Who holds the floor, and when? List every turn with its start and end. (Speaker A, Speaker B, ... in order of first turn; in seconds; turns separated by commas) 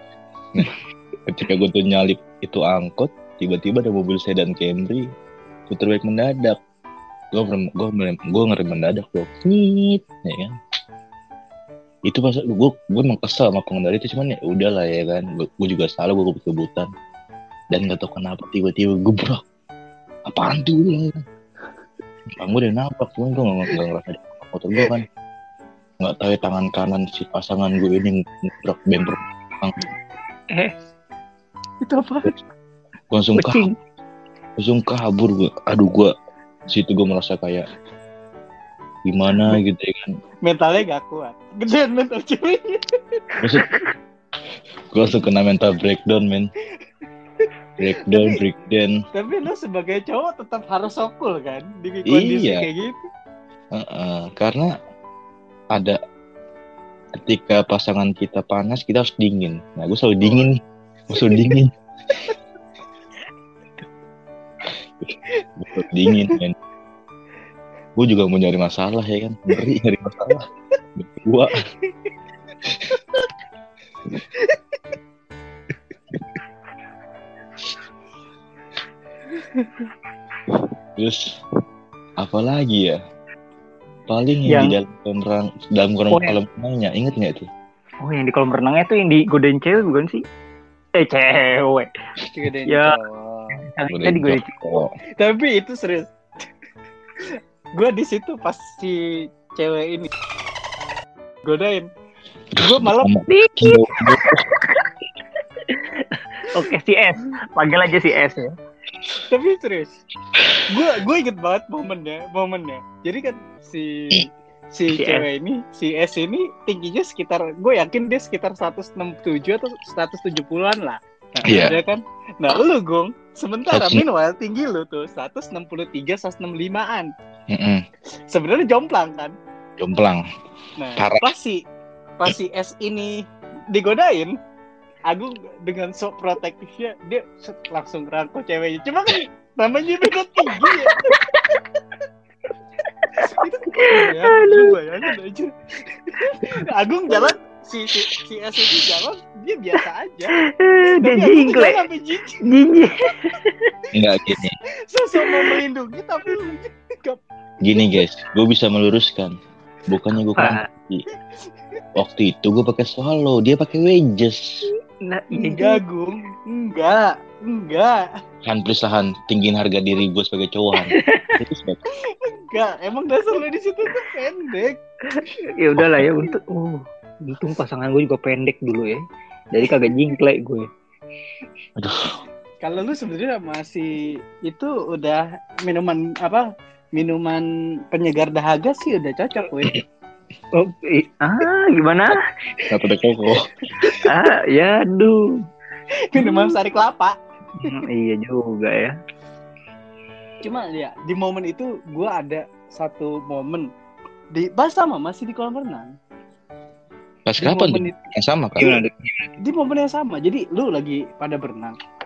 Speaker A: 1.2-5.0, Speaker A: 5.7-6.6, Speaker A: 7.3-10.5, Speaker A: 12.1-16.9, Speaker A: 17.7-19.4, Speaker A: 20.3-21.2, Speaker A: 22.4-25.1, Speaker A: 26.0-29.8, Speaker B: 31.8-32.3, Speaker A: 33.1-33.6, Speaker C: 33.4-33.7, Speaker A: 34.6-36.1, Speaker A: 36.7-37.6, Speaker A: 39.0-40.1, Speaker B: 40.4-43.2, Speaker A: 43.4-43.7, Speaker A: 44.9-46.5, Speaker A: 47.8-49.0, Speaker B: 48.1-48.4, Speaker B: 49.1-53.0, Speaker A: 52.1-52.6, Speaker A: 53.7-54.7, Speaker A: 55.7-56.0, Speaker A: 57.1-61.7, Speaker B: 60.2-60.5, Speaker B: 61.1-61.5, Speaker A: 65.0-66.5, Speaker B: 66.1-66.4, Speaker A: 68.0-71.6, Speaker B: 79.3-79.9, Speaker A: 81.0-81.4, Speaker A: 82.2-83.0, Speaker A: 84.1-87.5, Speaker C: 84.5-84.8, Speaker C: 86.1-86.4, Speaker C: 88.0-90.2, Speaker C: 90.9-91.9, Speaker B: 92.3-93.6, Speaker C: 92.7-92.9, Speaker C: 93.6-94.8, Speaker A: 93.9-94.9, Speaker B: 95.2-96.1, Speaker B: 97.8-100.1, Speaker B: 101.4-101.9, Speaker B: 102.6-103.1, Speaker A: 102.6-104.5, Speaker C: 103.3-104.9, Speaker C: 105.6-108.5, Speaker B: 109.2-110.0, Speaker B: 110.7-127.1, Speaker C: 114.9-115.2, Speaker A: 121.4-121.8, Speaker A: 123.7-124.0, Speaker A: 127.5-127.8, Speaker B: 128.3-129.3, Speaker A: 129.8-130.2, Speaker B: 130.8-131.6, Speaker A: 131.0-131.2, Speaker B: 132.2-134.3, Speaker B: 135.1-141.2, Speaker C: 140.7-141.4, Speaker C: 143.0-144.8, Speaker B: 143.1-152.4, Speaker C: 150.6-151.8, Speaker C: 152.4-153.7, Speaker A: 153.9-154.6, Speaker B: 154.9-157.9, Speaker C: 155.2-155.6, Speaker A: 157.6-159.3, Speaker A: 159.9-161.0, Speaker C: 160.3-160.6, Speaker A: 161.9-164.7, Speaker C: 165.0-165.8, Speaker B: 165.3-168.1, Speaker A: 168.4-171.8, Speaker C: 170.8-171.4, Speaker B: 172.0-174.8, Speaker C: 175.1-180.7, Speaker A: 175.8-176.1, Speaker A: 181.8-182.2, Speaker B: 182.6-186.4, Speaker B: 186.9-189.8, Speaker C: 190.5-192.2, Speaker A: 192.7-194.0, Speaker B: 193.8-194.1, Speaker C: 193.9-195.4, Speaker B: 196.1-197.8, Speaker C: 196.2-196.6, Speaker C: 197.6-198.9, Speaker B: 200.4-203.7, Speaker B: 204.3-205.9, Speaker A: 207.2-208.8, Speaker B: 207.4-208.0, Speaker C: 208.6-209.3, Speaker B: 209.4-211.8